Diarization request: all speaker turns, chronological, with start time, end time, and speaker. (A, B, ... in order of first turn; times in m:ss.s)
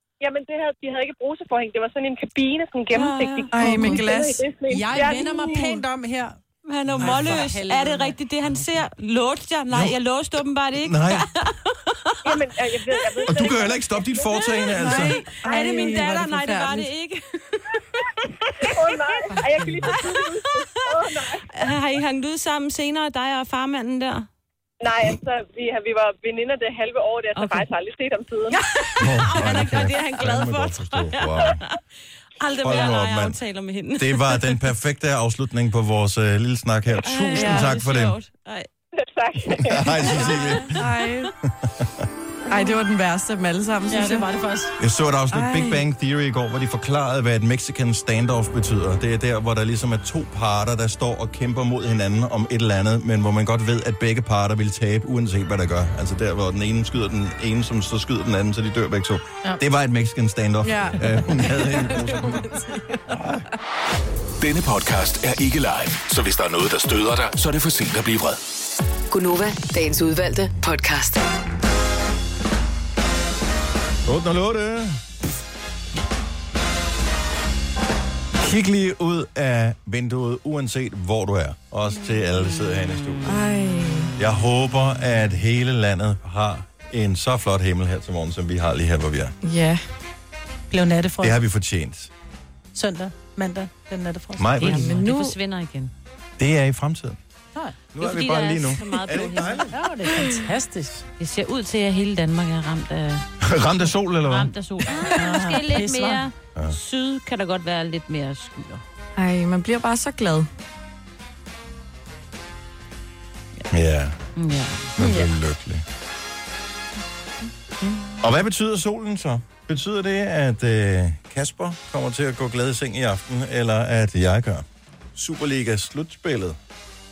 0:00.2-0:05.8 A
0:03.5-0:04.4 B
0:03.6-0:04.0 C
0:04.7-0:06.4 C
0:05.3-0:05.7 B
0:06.6-0:12.4 D
0:06.9-0:07.4 E
0:07.0-0:08.2 C
0:09.7-0:10.0 E
0:10.8-0:11.3 E
0:12.2-0:14.5 A
0:13.3-0:15.2 E
0:14.7-0:16.9 B
0:15.3-0:17.6 D
0:18.6-0:21.5 A
0:19.4-0:20.2 D
0:21.5-0:24.3 D
0:24.8-0:28.6 A
0:27.4-0:27.7 D
0:28.5-0:31.8 D
0:29.0-0:31.6 E
0:32.4-0:34.6 D
0:32.6-0:33.4 E
0:34.0-0:38.2 E
0:37.0-0:38.7 D
0:37.3-0:37.7 B
0:39.0-0:40.1 A
0:39.6-0:40.8 E
0:40.0-0:41.3 B
0:40.3-0:40.7 D
0:41.6-0:42.0 E
0:42.5-0:44.3 B
0:43.9-0:44.7 C
0:44.8-1:02.5 E
0:45.3-0:45.8 B
1:00.6-1:03.0 B
1:03.1-1:03.4 E
1:04.4-1:08.4 F
1:09.1-1:11.2 G
1:14.0-1:15.0 E
1:18.4-1:23.4 E
1:23.2-1:24.1 B
1:24.2-1:29.3 E
1:29.4-1:29.8 B
1:30.7-1:31.4 C
1:31.2-1:32.1 E
1:32.7-1:35.2 C
1:34.4-1:35.0 E
1:34.6-1:35.9 D
1:34.7-1:35.1 B
1:36.4-1:37.2 E
1:37.9-1:39.7 E
1:38.0-1:39.7 D
1:39.7-1:41.0 C
1:41.2-1:43.2 D
1:43.4-1:44.5 E
1:44.2-1:48.8 D
1:45.0-1:46.2 C
1:49.2-1:50.5 B
1:53.7-1:54.1 E
1:54.4-1:55.2 D
1:54.9-1:55.8 E
1:57.8-1:58.2 D
1:58.2-2:06.6 E